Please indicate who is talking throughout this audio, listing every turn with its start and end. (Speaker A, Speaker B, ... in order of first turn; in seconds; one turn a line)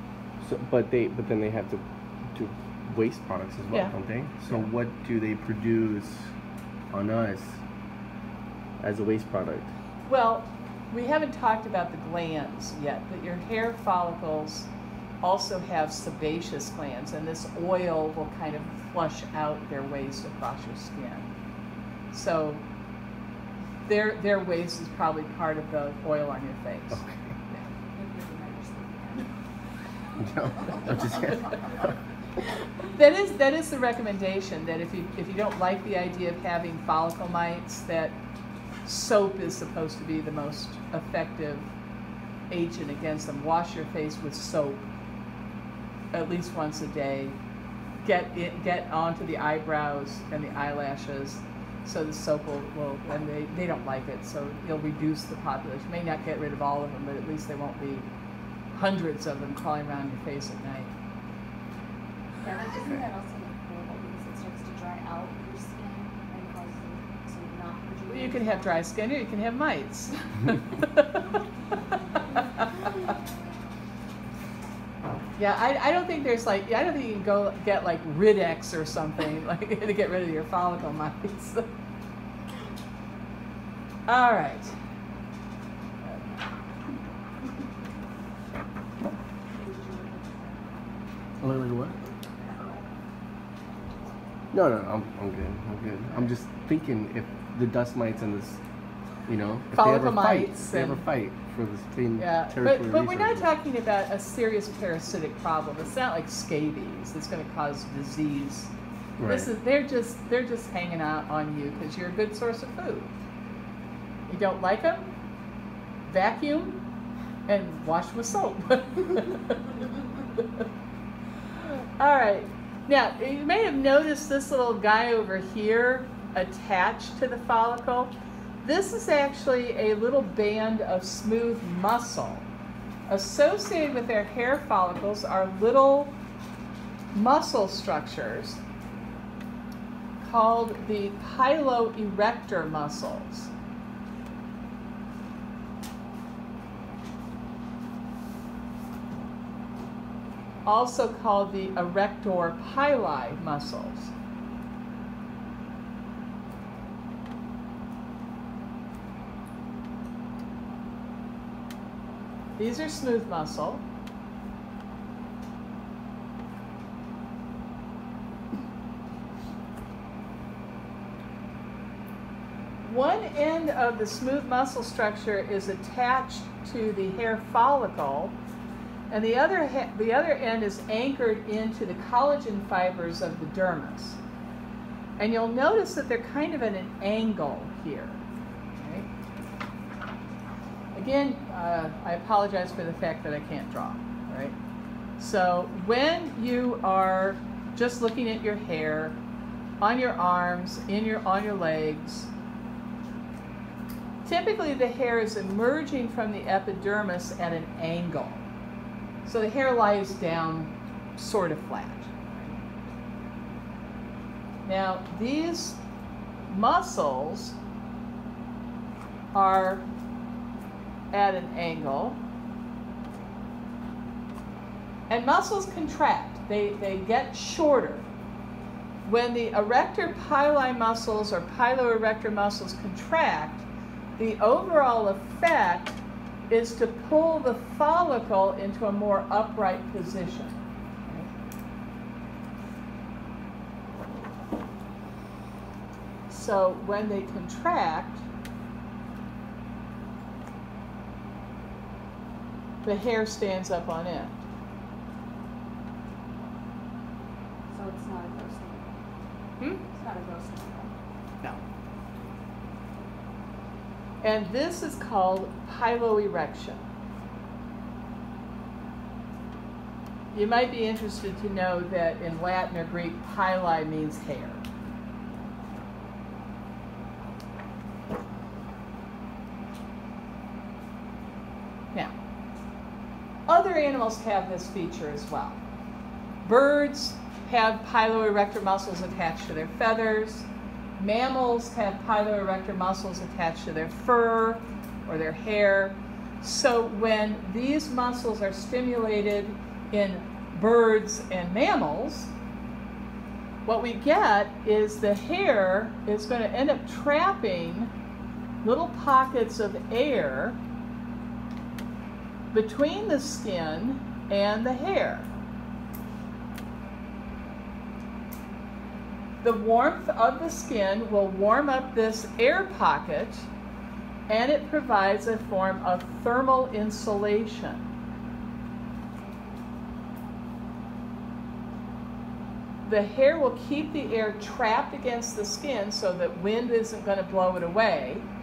Speaker A: 0.4-6.3
Speaker A: 6.9-7.6
Speaker A: 8.8-9.7
Speaker B: 10.1-14.7
Speaker B: 15.2-21.3
Speaker B: 22.1-22.6
Speaker B: 23.9-27.0
Speaker A: 26.9-27.4
Speaker C: 27.6-29.3
Speaker A: 30.2-31.9
Speaker C: 30.4-31.9
Speaker B: 33.0-38.2
Speaker B: 38.8-41.7
Speaker B: 42.5-44.9
Speaker B: 46.1-47.4
Speaker B: 48.0-58.1
Speaker B: 58.7-60.9
Speaker C: 62.4-68.8
Speaker B: 68.1-72.9
Speaker B: 75.4-81.7
Speaker B: 84.1-84.8
Speaker C: 89.5-91.1
Speaker A: 91.4-92.0
Speaker C: 92.2-92.8
Speaker A: 94.5-98.6
Speaker A: 99.3-103.5
Speaker B: 99.7-101.0
Speaker B: 102.2-108.7
Speaker A: 109.2-109.5
Speaker B: 109.2-113.1
Speaker B: 114.3-115.1
Speaker B: 116.0-116.8
Speaker B: 117.5-119.7
Speaker B: 121.7-132.5
Speaker B: 133.1-136.2
Speaker B: 137.1-138.6
Speaker B: 140.2-143.5
Speaker B: 150.7-154.1
Speaker B: 162.6-163.8
Speaker B: 172.8-178.4
Speaker B: 179.1-184.2
Speaker B: 185.2-188.2
Speaker B: 188.8-189.1
Speaker B: 190.9-194.6
Speaker B: 195.2-199.2
Speaker B: 199.8-202.3
Speaker B: 204.2-208.4
Speaker B: 209.2-212.6
Speaker B: 214.6-215.8
Speaker B: 216.5-217.6
Speaker B: 219.3-219.8
Speaker B: 221.1-222.2
Speaker B: 225.1-228.1
Speaker B: 229.0-233.7
Speaker B: 234.2-241.3
Speaker B: 246.3-248.2
Speaker B: 252.8-254.4
Speaker C: 257.7-259.0
Speaker C: 259.8-260.9
Speaker B: 264.2-266.8
Speaker B: 270.3-274.6
Speaker B: 283.5-285.6
Speaker B: 286.4-302.3
Speaker B: 303.6-307.9
Speaker B: 308.6-310.6
Speaker B: 312.5-315.3
Speaker B: 319.4-323.5
Speaker B: 324.3-327.8
Speaker B: 332.8-338.3